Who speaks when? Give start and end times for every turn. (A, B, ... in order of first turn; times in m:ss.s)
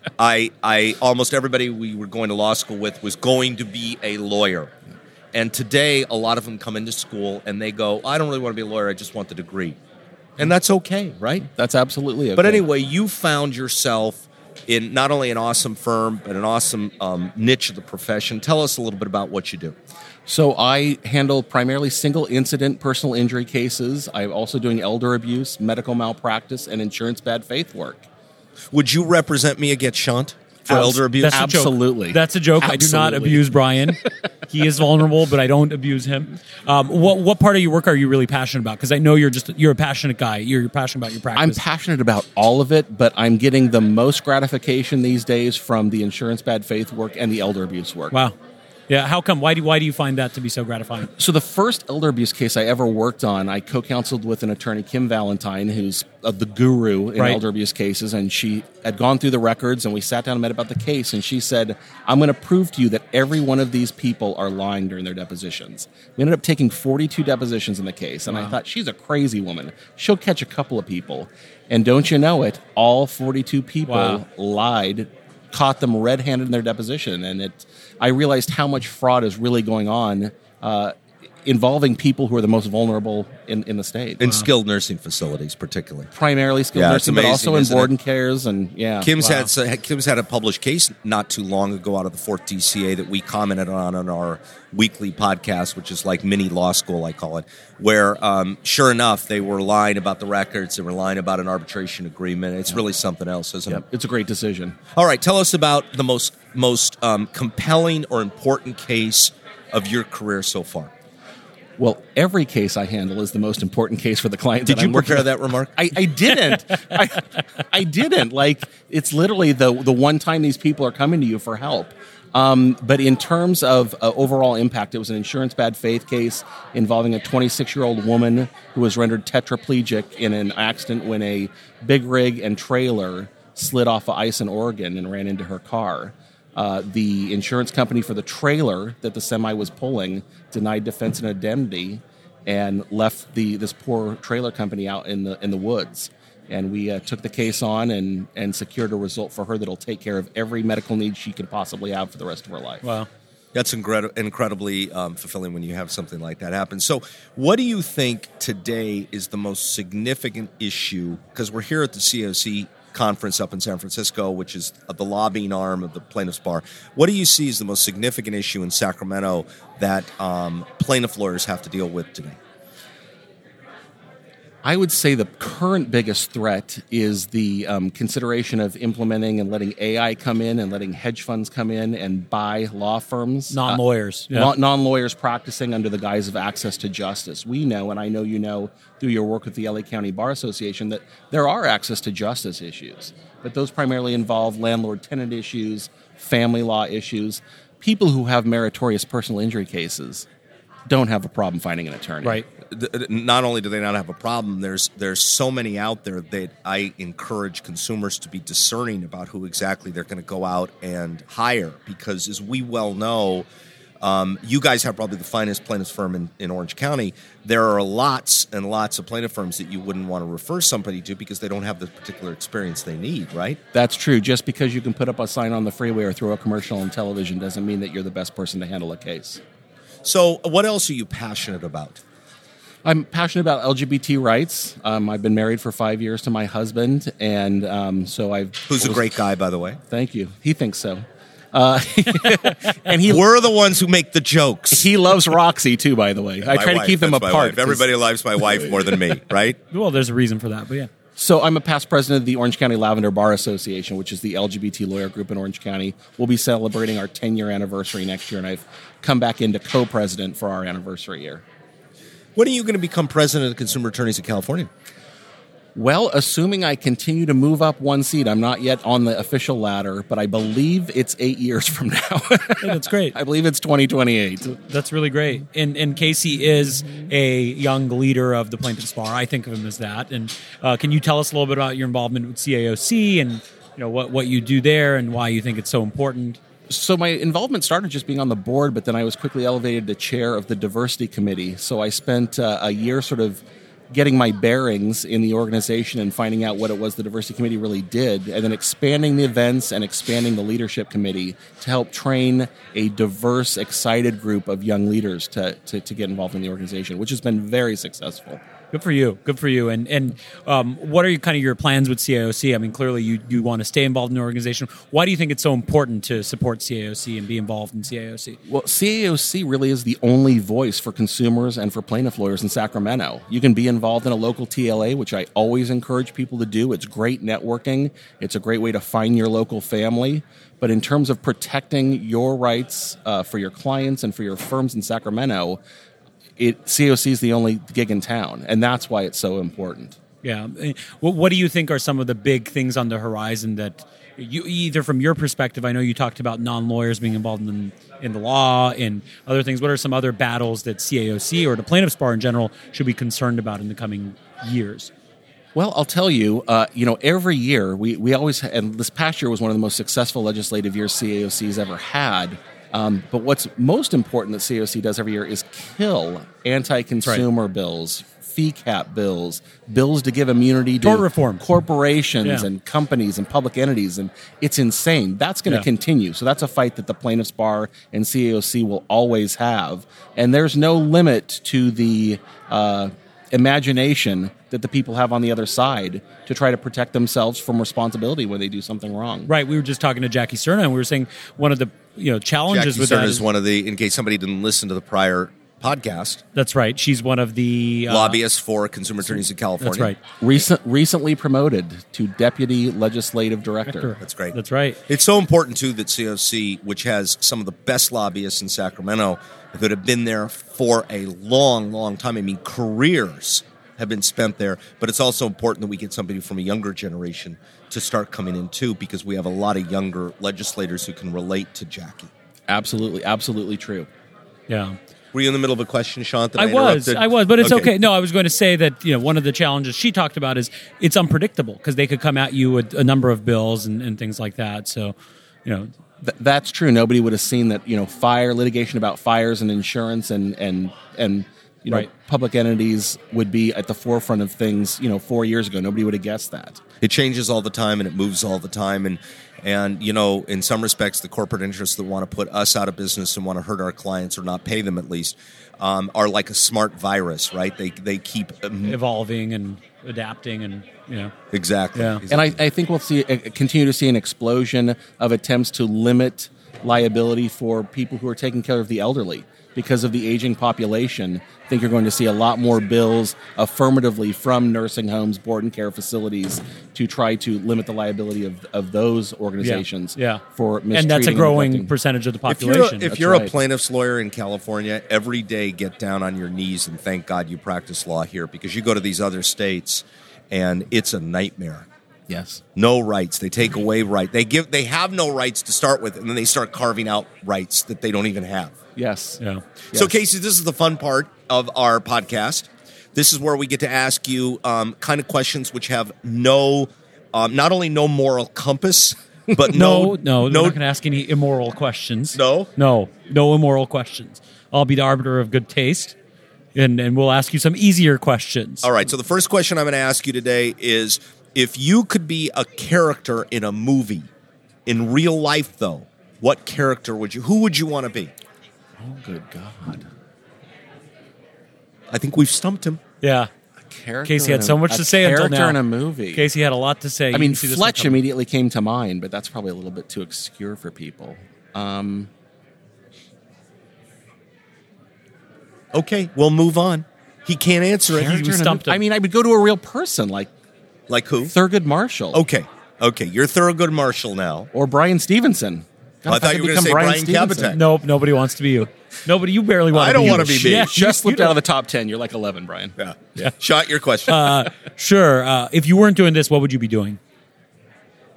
0:00.2-0:04.7 A
0:05.3-0:09.8 A
0:10.4-0:11.4 A
0:11.5-0:12.6 B
0:12.4-0:19.7 A
0:20.3-0:28.0 B
0:28.7-0:31.4 A
0:30.7-0:33.9 B
0:31.1-0:41.6 C
0:41.3-0:48.2 B
0:48.9-0:51.1 C
0:51.2-1:20.9 B
0:57.2-0:57.4 C
1:08.3-1:08.6 C
1:13.8-1:14.2 C
1:21.4-1:24.2 B
1:24.2-1:26.1 A
1:24.2-1:24.5 C
1:26.1-1:29.1 B
1:26.7-1:27.9 A
1:29.0-1:43.8 A
1:29.2-1:29.5 C
1:43.7-1:44.8 B
1:44.9-1:50.9 A
1:51.8-2:32.8 B
1:54.6-1:55.8 A
2:32.8-2:33.1 C
2:33.5-2:52.4 A
2:54.6-3:03.8 B
3:03.5-3:04.5 C
3:04.3-3:20.2 B
3:20.9-3:22.4 B
3:22.7-3:33.4 A
3:34.0-3:43.6 A
3:43.7-3:49.4 B
3:50.0-3:52.0 A
3:52.8-3:59.0 B
3:58.7-3:59.8 A
3:59.9-4:03.2 B
4:03.0-4:04.9 A
4:04.7-4:07.9 B
4:06.4-4:09.6 A
4:09.7-4:10.9 C
4:11.2-4:21.4 B
4:22.4-4:24.7 A
4:25.7-4:34.6 B
4:32.6-4:33.1 C
4:34.7-4:46.4 C
4:46.7-5:08.4 B
5:08.7-5:18.4 C
5:18.4-5:35.6 B
5:36.4-5:40.0 B
5:40.2-5:54.9 C
5:55.5-6:29.3 B
6:10.8-6:11.4 C
6:12.2-6:12.5 C
6:29.2-6:33.2 C
6:32.5-6:36.2 A
6:36.3-6:38.2 C
6:37.9-6:39.9 A
6:39.2-6:40.0 C
6:40.2-6:44.0 B
6:43.7-6:44.8 C
6:44.0-6:44.4 A
6:44.9-7:02.1 A
7:02.5-7:03.9 B
7:04.5-7:04.8 C
7:05.1-7:07.7 A
7:06.4-7:14.9 C
7:15.4-7:15.7 C
7:16.0-7:26.6 B
7:26.8-7:38.8 A
7:38.6-7:41.1 C
7:41.3-7:42.4 A
7:41.7-7:42.0 C
7:42.1-8:01.7 B
7:59.4-8:02.9 C
8:02.3-8:11.7 A
8:02.9-8:03.3 B
8:12.1-8:12.4 B
8:12.6-8:18.5 A
8:18.8-8:19.2 B
8:19.7-8:30.6 A
8:19.7-8:20.0 B
8:29.5-8:35.9 C
8:32.1-8:32.5 A
8:36.5-8:38.7 C
8:38.6-8:44.1 A
8:44.6-8:48.1 A
8:48.8-8:49.8 B
8:51.9-8:52.8 A
8:53.0-8:53.3 C
8:53.6-8:56.3 B
8:54.0-8:55.6 C
8:56.1-8:58.0 C
8:57.1-9:02.1 B
9:05.7-9:08.1 A
9:07.9-9:10.3 B
9:08.0-9:08.8 C
9:10.9-9:11.3 A
9:11.2-9:12.2 B
9:12.1-9:14.5 A
9:14.5-9:17.6 B
9:16.1-9:17.6 A
9:17.5-9:21.4 C
9:19.7-9:20.7 A
9:20.0-9:22.8 B
9:22.8-9:24.5 A
9:24.1-9:27.0 C